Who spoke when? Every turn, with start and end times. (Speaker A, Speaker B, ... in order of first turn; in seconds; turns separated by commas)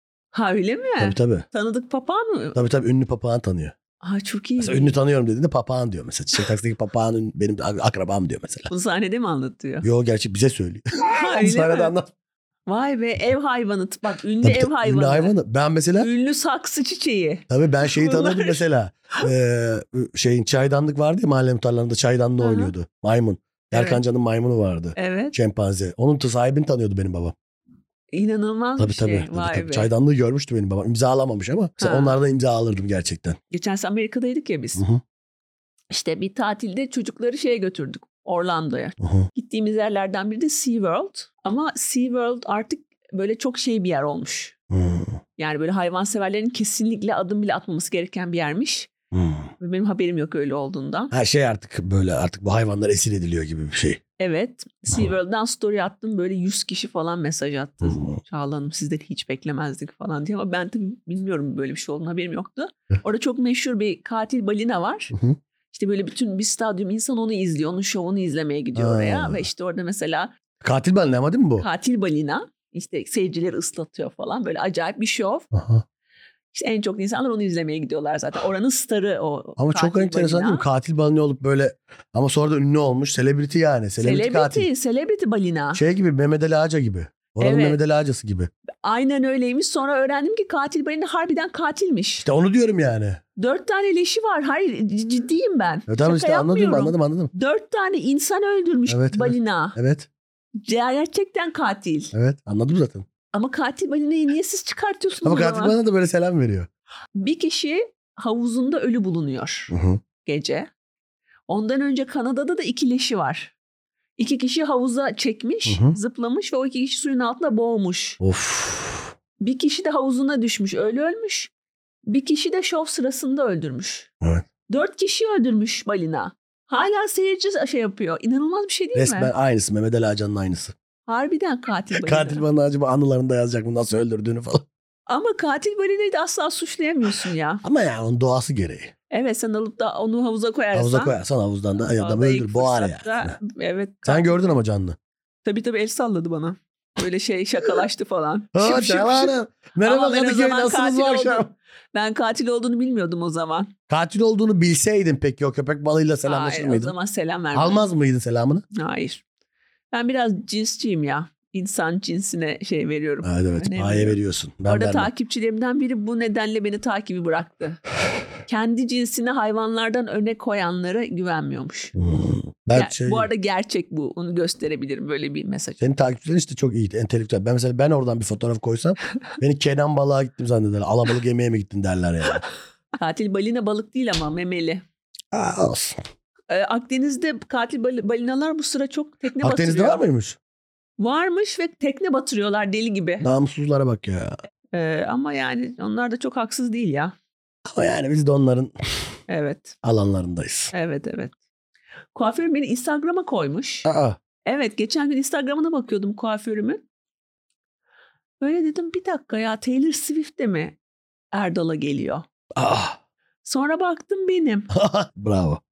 Speaker A: 0.3-2.6, Speaker B: 1.0-1.5, Speaker B: 2.5-3.8, Speaker A: 4.0-5.0, Speaker B: 4.6-8.7, Speaker A: 8.7-9.9, Speaker B: 9.8-12.1, Speaker A: 11.1-11.9, Speaker A: 12.7-15.3, Speaker B: 14.4-16.1, Speaker A: 16.0-18.6, Speaker B: 17.5-27.4, Speaker A: 22.4-22.7, Speaker A: 23.7-24.0, Speaker A: 25.0-25.3, Speaker A: 28.1-29.9, Speaker B: 28.8-33.4, Speaker A: 31.8-32.2, Speaker A: 33.5-34.8, Speaker A: 35.9-44.5, Speaker B: 39.0-39.3, Speaker B: 44.7-45.2, Speaker A: 45.4-48.9, Speaker B: 49.1-49.5, Speaker A: 49.6-51.1, Speaker B: 51.1-54.0, Speaker A: 54.2-65.2, Speaker B: 57.8-58.2, Speaker B: 65.1-65.4, Speaker A: 65.7-70.3, Speaker B: 68.8-69.5, Speaker B: 70.6-71.7, Speaker A: 71.6-75.5, Speaker B: 75.5-75.8, Speaker A: 76.5-80.6, Speaker B: 79.6-84.7, Speaker A: 84.0-85.8, Speaker B: 85.8-88.5, Speaker A: 87.4-87.8, Speaker A: 88.8-92.3, Speaker B: 92.2-93.2, Speaker A: 93.4-99.8, Speaker B: 95.9-97.3, Speaker B: 98.9-100.1, Speaker A: 100.6-102.1, Speaker B: 102.1-103.1, Speaker A: 103.3-105.8, Speaker B: 105.2-106.7, Speaker A: 107.2-109.7, Speaker B: 109.7-110.0, Speaker A: 110.2-110.7, Speaker A: 111.5-113.5, Speaker A: 114.2-118.2, Speaker B: 115.7-116.0, Speaker B: 118.2-119.1, Speaker A: 119.4-121.5, Speaker A: 122.1-124.1, Speaker A: 124.7-129.3, Speaker B: 128.9-130.8, Speaker A: 131.1-132.4, Speaker B: 132.0-134.7, Speaker A: 135.1-137.6, Speaker B: 137.6-138.9, Speaker A: 139.1-141.1, Speaker B: 140.7-143.4, Speaker A: 141.9-144.5, Speaker B: 144.1-145.0, Speaker A: 145.4-153.7, Speaker B: 148.6-151.5, Speaker B: 153.9-156.9, Speaker A: 156.2-157.8, Speaker B: 157.5-158.7, Speaker A: 158.7-159.2, Speaker A: 159.9-167.8, Speaker B: 163.2-165.1, Speaker A: 168.4-171.9, Speaker B: 172.0-173.3, Speaker A: 172.7-175.8, Speaker B: 175.8-182.4, Speaker A: 183.0-184.8, Speaker B: 185.3-186.0, Speaker A: 186.5-190.0, Speaker B: 189.4-190.4, Speaker A: 191.0-193.3, Speaker B: 193.2-194.4, Speaker A: 194.7-197.2, Speaker B: 197.7-198.7, Speaker A: 199.3-199.8, Speaker B: 199.8-200.7, Speaker A: 200.7-201.3, Speaker A: 202.2-203.9, Speaker B: 203.8-204.2, Speaker A: 204.5-206.8, Speaker A: 208.4-210.8, Speaker A: 211.3-212.3, Speaker B: 212.6-213.0, Speaker A: 213.4-214.7, Speaker B: 214.7-215.6